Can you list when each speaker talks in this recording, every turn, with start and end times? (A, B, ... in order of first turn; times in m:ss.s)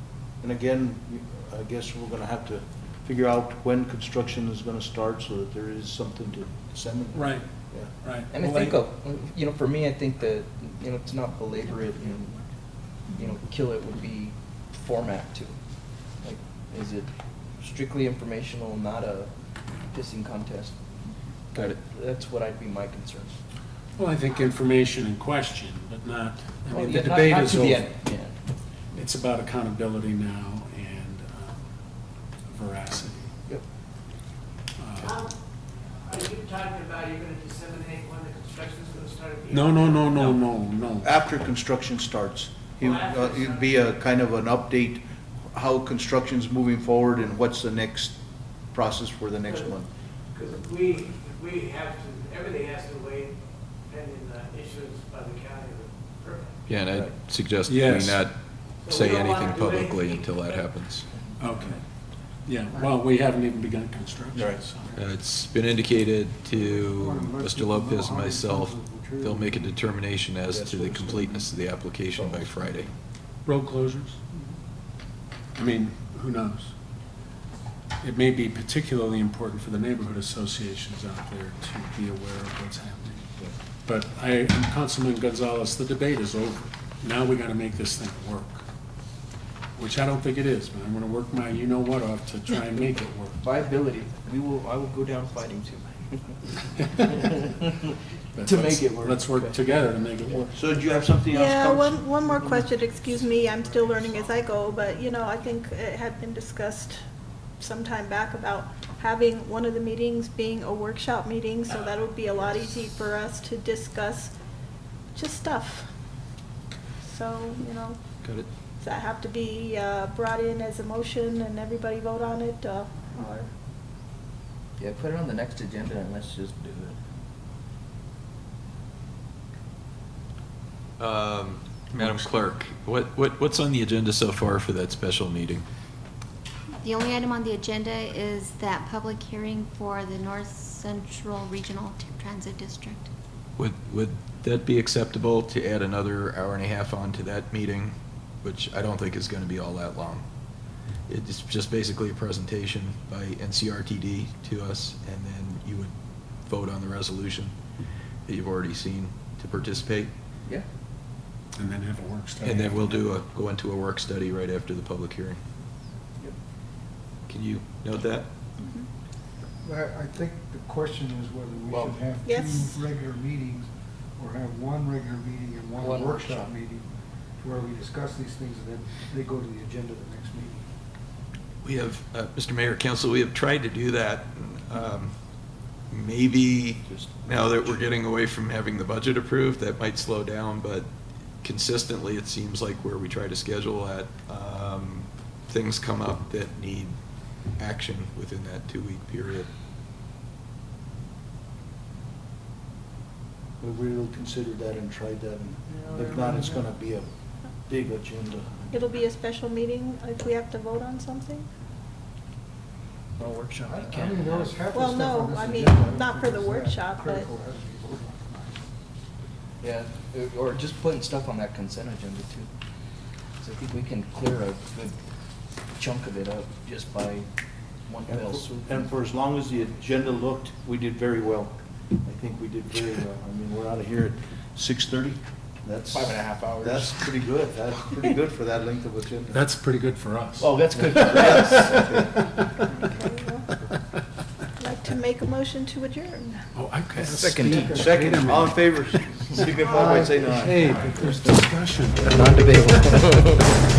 0:00.4-0:07.9 A
0:07.1-0:07.4 B
0:08.0-0:08.8 B
0:08.3-0:12.4 C
0:13.1-0:15.6 C
0:16.2-0:19.3 C
0:19.9-0:20.8 C
0:21.5-0:23.4 C
0:24.0-0:27.9 B
0:26.7-0:28.4 C
0:28.9-0:31.6 B
0:32.5-0:33.3 B
0:34.8-0:35.2 B
0:35.0-0:35.3 D
0:36.0-0:40.3 D
0:39.5-0:41.1 B
0:41.0-0:48.2 A
0:42.8-0:43.8 D
0:48.7-0:49.9 A
0:49.4-0:49.7 D
0:50.3-0:53.4 D
0:53.9-0:56.6 D
0:56.7-1:01.1 E
0:57.6-0:58.3 B
0:58.8-1:00.7 D
1:01.1-1:01.8 C
1:01.4-1:01.8 B
1:02.4-1:05.1 B
1:05.0-1:12.9 E
1:06.4-1:09.8 F
1:10.5-1:11.5 C
1:12.2-1:12.6 C
1:13.4-1:14.2 B
1:15.6-1:16.7 B
1:18.0-1:23.3 B
1:23.8-1:28.6 B
1:29.8-1:33.4 B
1:33.4-1:36.4 C
1:36.8-1:37.3 B
1:37.1-1:37.8 C
1:38.3-1:40.5 B
1:38.4-1:40.5 C
1:40.5-1:42.6 A
1:41.3-1:47.0 G
1:43.1-1:44.3 D
1:47.6-1:54.3 G
1:55.1-1:55.9 G
1:57.0-1:58.0 G
1:58.2-1:58.5 E
1:58.8-2:03.5 G
2:04.8-2:07.0 C
2:11.0-2:15.6 E
2:12.0-2:12.4 B
2:16.8-2:23.1 H
2:23.6-2:30.2 E
2:31.1-2:35.9 E
2:36.4-2:37.5 E
2:38.3-2:40.1 E
2:41.5-2:43.1 B
2:42.4-2:45.4 E
2:47.3-2:48.3 E
2:48.6-2:48.9 G
2:49.6-2:56.9 F
2:52.2-2:52.8 G
2:55.8-2:56.5 C
2:57.4-3:00.6 F
3:01.6-3:05.1 E
3:05.9-3:10.9 E
3:06.8-3:07.8 C
3:11.4-3:17.0 E
3:17.6-3:19.5 E
3:23.6-3:27.1 A
3:26.2-3:26.6 F
3:27.7-3:28.7 A
3:28.7-3:31.5 G
3:33.2-3:34.6 C
3:33.6-3:38.6 F
3:34.7-3:37.3 G
3:39.6-3:42.5 C
3:43.4-3:45.0 C
3:45.7-3:47.3 C
3:47.9-3:48.9 C
3:48.1-3:59.4 A
3:55.9-3:57.0 C
3:59.3-4:01.9 B
4:00.4-4:02.1 C
4:00.9-4:02.1 A
4:02.7-4:03.5 G
4:04.6-4:06.4 G
4:06.5-4:09.4 B
4:06.9-4:07.8 C
4:07.5-4:08.0 F
4:07.7-4:10.8 A
4:09.6-4:09.8 G
4:09.8-4:10.1 F
4:10.2-4:13.2 B
4:10.6-4:11.2 F
4:12.0-4:13.4 C